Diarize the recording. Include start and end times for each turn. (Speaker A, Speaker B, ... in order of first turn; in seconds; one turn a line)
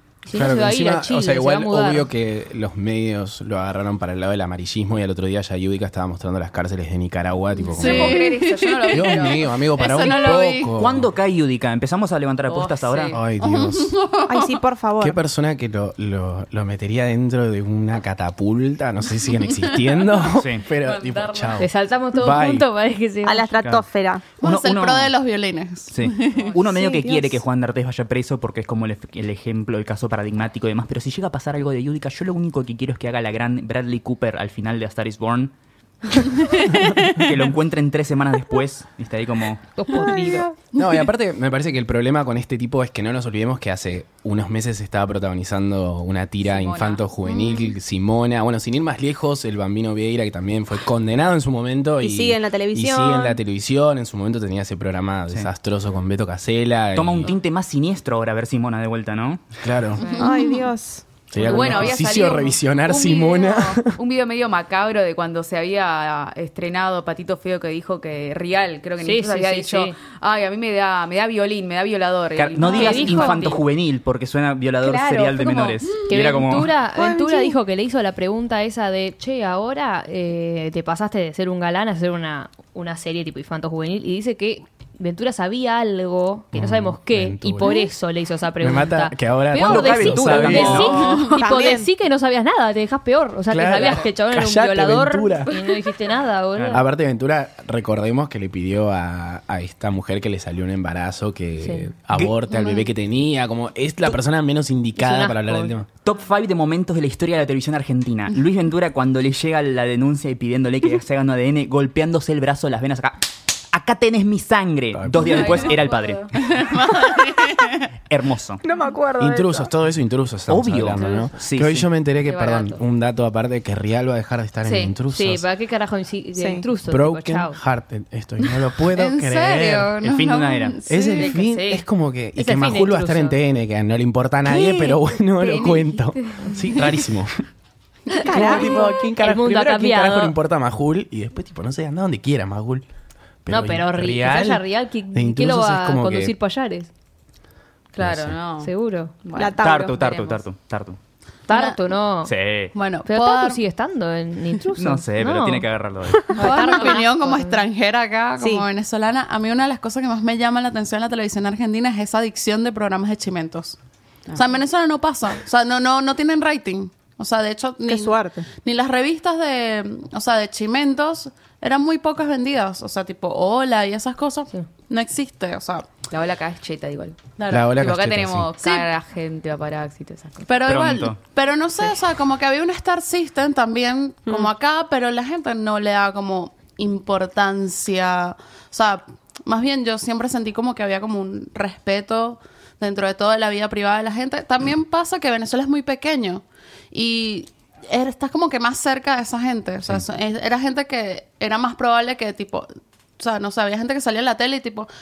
Speaker A: 0.3-2.1
Speaker B: 0.3-8.3
Speaker C: 7.7-9.6
Speaker D: 7.8-10.7
Speaker B: 8.9-11.1
Speaker E: 10.8-13.2
Speaker C: 12.5-13.2
Speaker B: 13.1-13.9
Speaker D: 13.4-14.5
Speaker F: 14.3-15.2
Speaker B: 15.0-22.7
Speaker E: 20.4-20.6
Speaker C: 20.8-21.6
Speaker A: 21.6-23.5
Speaker F: 23.2-24.2
Speaker E: 24.4-25.1
Speaker D: 24.4-26.5
Speaker E: 25.9-35.5
Speaker F: 26.7-27.4
Speaker E: 36.2-39.6
Speaker A: 39.8-40.5
Speaker B: 40.7-57.3
Speaker C: 46.5-47.0
Speaker F: 52.0-53.4
Speaker E: 56.9-59.6
Speaker B: 59.6-60.0
Speaker C: 60.0-60.3
Speaker D: 60.2-60.6
Speaker F: 60.2-61.0
Speaker B: 61.3-64.0
Speaker C: 61.4-73.6
Speaker A: 69.0-70.0
Speaker E: 72.4-76.7
Speaker A: 72.6-73.5
Speaker C: 74.8-76.2
Speaker A: 76.1-96.8
Speaker F: 77.0-77.5
Speaker B: 86.5-87.8
Speaker B: 88.6-91.0
Speaker E: 89.5-91.0
Speaker D: 90.9-91.3
Speaker F: 91.0-91.9
Speaker B: 93.5-95.5
Speaker E: 96.6-96.8
Speaker B: 96.7-105.9
Speaker A: 101.6-101.9
Speaker D: 102.5-102.9
Speaker A: 105.0-105.7
Speaker E: 106.0-116.3
Speaker B: 114.9-115.5
Speaker C: 115.2-116.3
Speaker D: 116.5-117.9
Speaker E: 118.1-118.6
Speaker F: 118.6-119.7
Speaker B: 119.2-125.5
Speaker E: 120.5-121.9
Speaker C: 122.2-122.8
Speaker C: 124.7-125.0
Speaker A: 125.1-127.6
Speaker F: 126.3-126.7
Speaker B: 126.9-130.0
Speaker D: 128.9-131.3
Speaker E: 130.0-130.8
Speaker B: 130.9-137.4
Speaker C: 130.9-131.8
Speaker A: 132.4-133.4
Speaker C: 134.6-134.8
Speaker C: 135.4-137.0
Speaker F: 138.2-139.0
Speaker B: 138.3-142.8
Speaker A: 138.3-140.3
Speaker B: 143.4-146.3
Speaker A: 143.5-146.9
Speaker C: 147.9-148.7
Speaker B: 148.0-148.4
Speaker A: 148.6-149.2
Speaker C: 149.2-150.4
Speaker F: 149.3-150.0
Speaker E: 149.6-151.0
Speaker A: 151.5-152.3
Speaker D: 151.5-151.8
Speaker E: 152.2-152.8
Speaker D: 152.8-153.6
Speaker A: 153.1-155.7
Speaker E: 154.8-156.4
Speaker A: 156.3-157.6
Speaker D: 156.4-163.8
Speaker F: 158.4-158.7
Speaker D: 164.3-175.9
Speaker F: 167.9-168.5
Speaker C: 176.1-180.5
Speaker D: 177.4-177.7
Speaker B: 177.5-178.5
Speaker D: 178.6-178.9
Speaker D: 180.5-204.9
Speaker E: 180.7-181.2